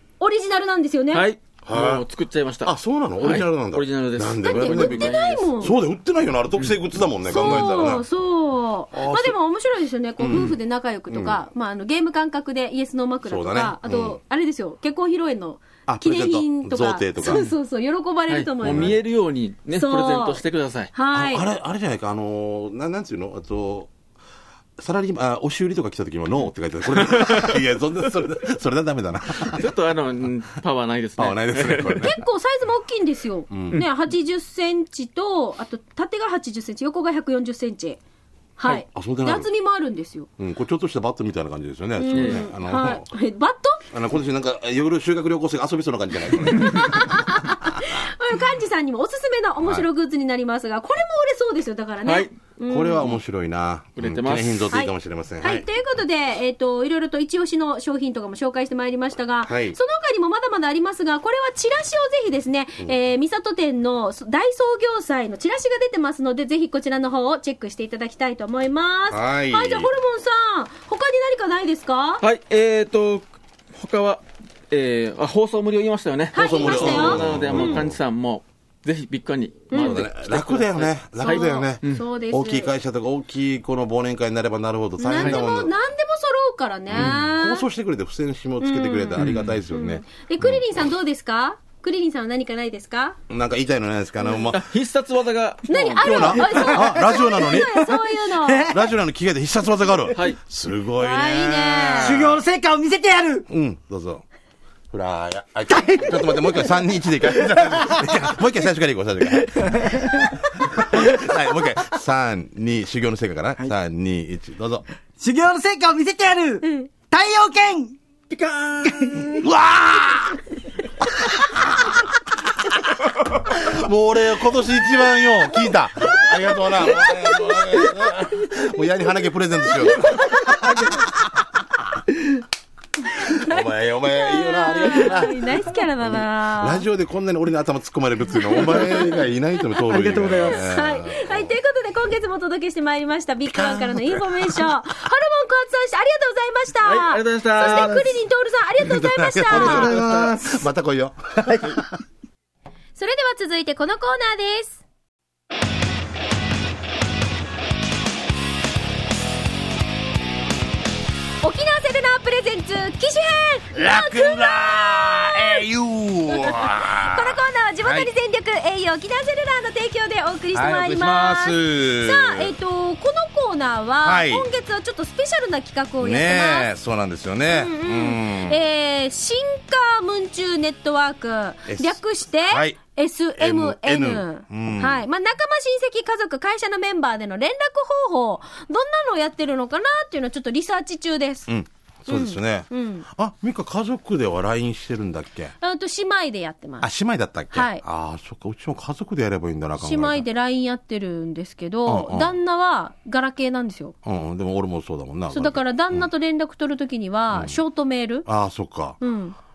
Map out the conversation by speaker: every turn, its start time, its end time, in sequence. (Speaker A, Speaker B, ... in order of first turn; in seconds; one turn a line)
Speaker A: 0.2-1.2
Speaker B: 1.1-5.7
Speaker C: 1.7-2.0
Speaker C: 2.6-8.1
Speaker A: 4.4-5.8
Speaker A: 7.3-19.0
Speaker B: 7.4-7.7
Speaker C: 8.9-9.4
Speaker C: 10.2-10.6
Speaker C: 11.1-11.4
Speaker C: 13.2-14.2
Speaker C: 15.9-17.5
Speaker B: 18.3-20.9
Speaker C: 18.6-19.0
Speaker A: 19.8-20.4
Speaker A: 20.9-21.5
Speaker C: 21.1-23.9
Speaker C: 24.8-29.7
Speaker B: 27.1-27.5
Speaker B: 29.5-32.1
Speaker C: 31.2-32.2
Speaker A: 32.0-38.0
Speaker C: 33.5-33.8
Speaker A: 38.6-40.3
Speaker C: 38.7-39.5
Speaker C: 40.4-43.1
Speaker A: 42.0-43.8
Speaker B: 42.1-42.4
Speaker C: 43.9-47.2
Speaker A: 46.5-53.2
Speaker B: 52.0-52.3
Speaker C: 52.7-55.7
Speaker B: 54.0-54.7
Speaker A: 54.7-72.2
Speaker C: 59.5-59.8
Speaker C: 69.1-69.9
Speaker B: 72.2-82.0
Speaker A: 76.3-77.8
Speaker C: 76.3-78.0
Speaker A: 79.7-80.0
Speaker C: 79.7-85.7
Speaker A: 81.2-82.7
Speaker A: 85.0-87.7
Speaker B: 85.2-85.4
Speaker C: 86.9-90.7
Speaker A: 88.6-93.2
Speaker B: 89.2-89.6
Speaker C: 93.3-94.6
Speaker B: 94.4-96.7
Speaker A: 95.7-98.7
Speaker C: 96.0-97.9
Speaker D: 96.8-98.9
Speaker C: 98.7-102.4
Speaker A: 101.0-102.2
Speaker D: 102.0-103.5
Speaker C: 103.5-104.2
Speaker C: 104.9-114.8
Speaker D: 105.7-106.8
Speaker D: 107.4-108.1
Speaker D: 109.5-111.3
Speaker D: 115.2-119.5
Speaker A: 116.6-116.9
Speaker C: 119.3-120.4
Speaker C: 121.2-122.0
Speaker C: 123.1-131.5
Speaker D: 130.5-131.1
Speaker C: 133.1-141.5
Speaker A: 133.3-136.8
Speaker A: 138.5-139.2
Speaker D: 139.9-140.7
Speaker A: 140.3-149.9
Speaker C: 143.5-144.7
Speaker B: 146.8-148.0
Speaker C: 147.6-148.0
Speaker C: 148.8-151.9
Speaker D: 149.5-150.7
Speaker D: 151.4-151.8
Speaker A: 153.0-154.8
Speaker A: 161.4-165.7
Speaker C: 163.7-168.1
Speaker A: 166.3-176.7
Speaker C: 170.5-172.5
Speaker C: 174.0-174.5
Speaker C: 176.0-178.6
Speaker A: 177.5-191.5
Speaker C: 181.7-182.8
Speaker C: 183.4-185.0
Speaker C: 191.5-195.5
Speaker A: 192.1-193.1
Speaker A: 195.6-196.9
Speaker C: 196.8-200.2
Speaker A: 197.5-197.8
Speaker A: 199.8-203.9
Speaker C: 201.9-202.4
Speaker C: 204.0-206.1
Speaker A: 205.3-208.2
Speaker C: 207.3-207.6
Speaker C: 208.2-209.0
Speaker A: 209.0-209.3